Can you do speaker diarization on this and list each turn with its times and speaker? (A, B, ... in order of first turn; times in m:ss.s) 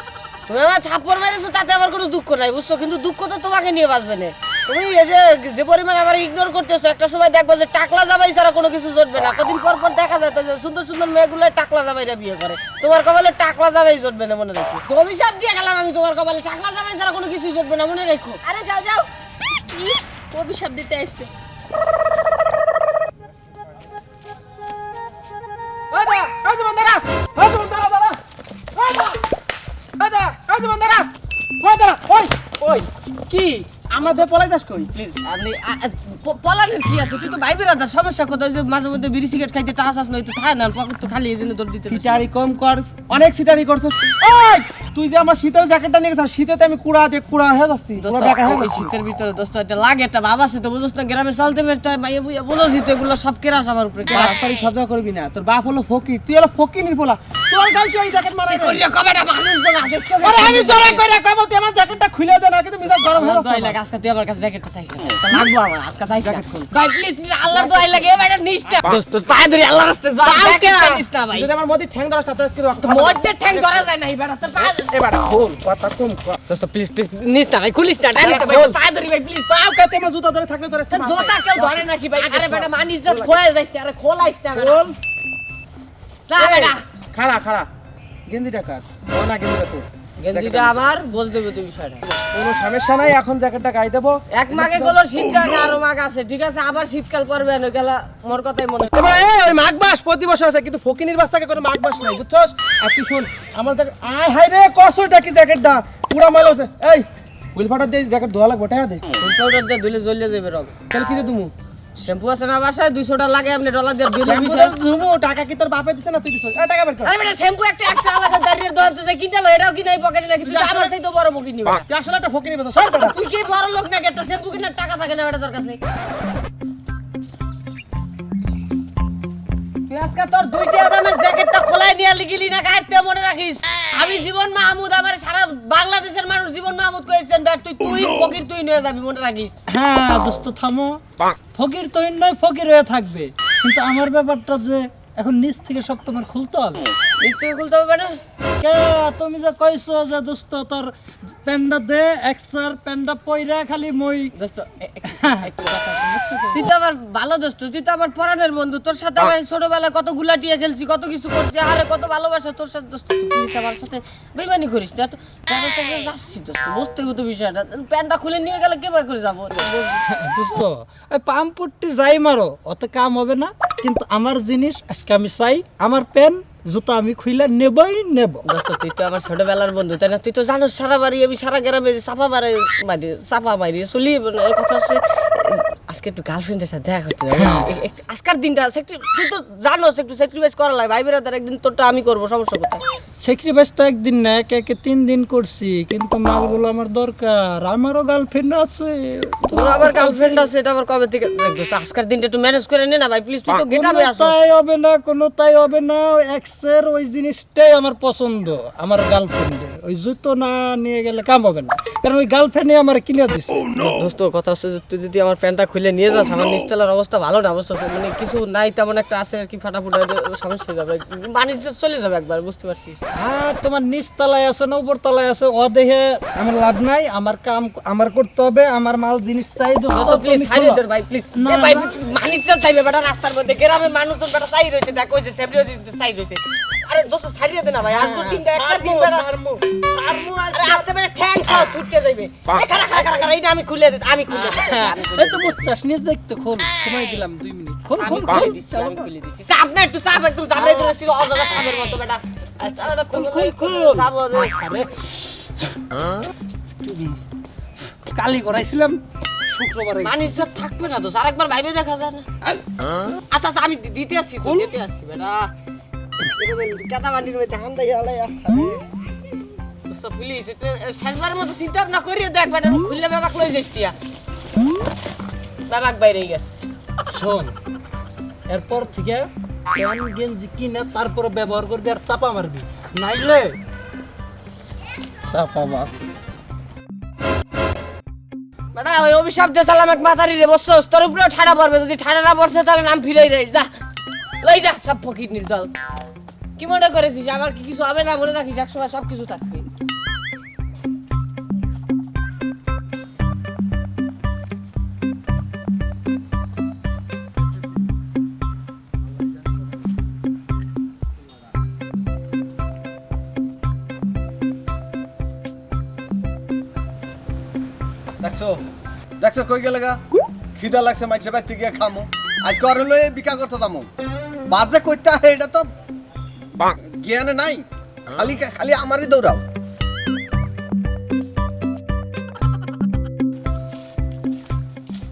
0:00.5-0:18.4 A
0:18.4-0:19.1 B
0:19.7-0:21.3 B
0:25.9-0:28.2 C
0:28.7-0:29.2 C
0:30.0-0:31.1 C
0:31.6-0:34.9 C
0:34.9-0:42.2 A
0:41.9-0:48.9 C
0:48.0-0:54.4 A
0:54.1-0:58.8 C
0:58.4-1:01.0 A
1:00.2-1:03.8 C
1:03.1-1:11.5 A
1:06.2-1:06.6 C
1:10.2-1:13.8 C
1:12.8-1:14.9 A
1:14.6-1:16.4 C
1:16.5-1:19.5 A
1:18.2-1:18.8 C
1:19.5-1:23.3 C
1:20.9-1:24.8 A
1:24.5-1:25.0 C
1:26.3-1:26.8 A
1:26.4-1:27.7 C
1:28.3-1:30.8 C
1:30.2-1:32.0 A
1:32.1-1:35.3 C
1:34.3-1:39.0 A
1:39.0-1:49.0 C
1:49.2-1:50.7 A
1:50.9-1:51.5 C
1:52.0-1:54.8 A
1:54.2-1:57.1 C
1:57.0-2:01.8 A
2:00.4-2:00.9 C
2:01.9-2:03.1 C
2:03.1-2:05.8 A
2:09.9-2:19.5 A
2:19.7-2:21.0 D
2:21.5-2:26.8 D
2:27.2-2:28.1 A
2:28.6-2:30.9 D
2:31.4-2:34.3 D
2:34.3-2:50.0 A
2:35.9-2:36.6 D
2:50.1-2:58.4 D
2:58.4-3:12.8 A
3:07.3-3:07.6 D
3:13.2-3:20.4 D
3:19.5-3:24.4 A
3:23.7-3:33.7 D
3:33.8-3:43.0 A
3:43.2-3:50.8 D
3:49.9-3:59.3 A
3:51.3-3:51.9 D
3:57.9-4:00.8 D
4:00.5-4:05.6 A
4:04.3-4:09.0 D
4:07.9-4:12.2 A
4:10.6-4:10.9 D
4:12.6-4:16.3 D
4:12.7-4:14.5 A
4:16.8-4:17.2 D
4:18.1-4:20.1 D
4:20.0-4:22.3 A
4:23.3-4:25.5 A
4:26.4-4:28.8 A
4:29.9-4:33.9 A
4:35.7-4:36.5 A
4:37.1-4:37.5 D
4:38.5-4:43.6 D
4:45.2-4:45.9 D
4:48.7-4:53.7 A
4:54.4-4:55.7 A
4:56.6-4:59.7 A
5:18.2-5:18.6 E
5:19.2-5:20.0 E
5:20.6-5:23.9 E
5:24.5-5:25.7 E
5:26.7-5:29.4 E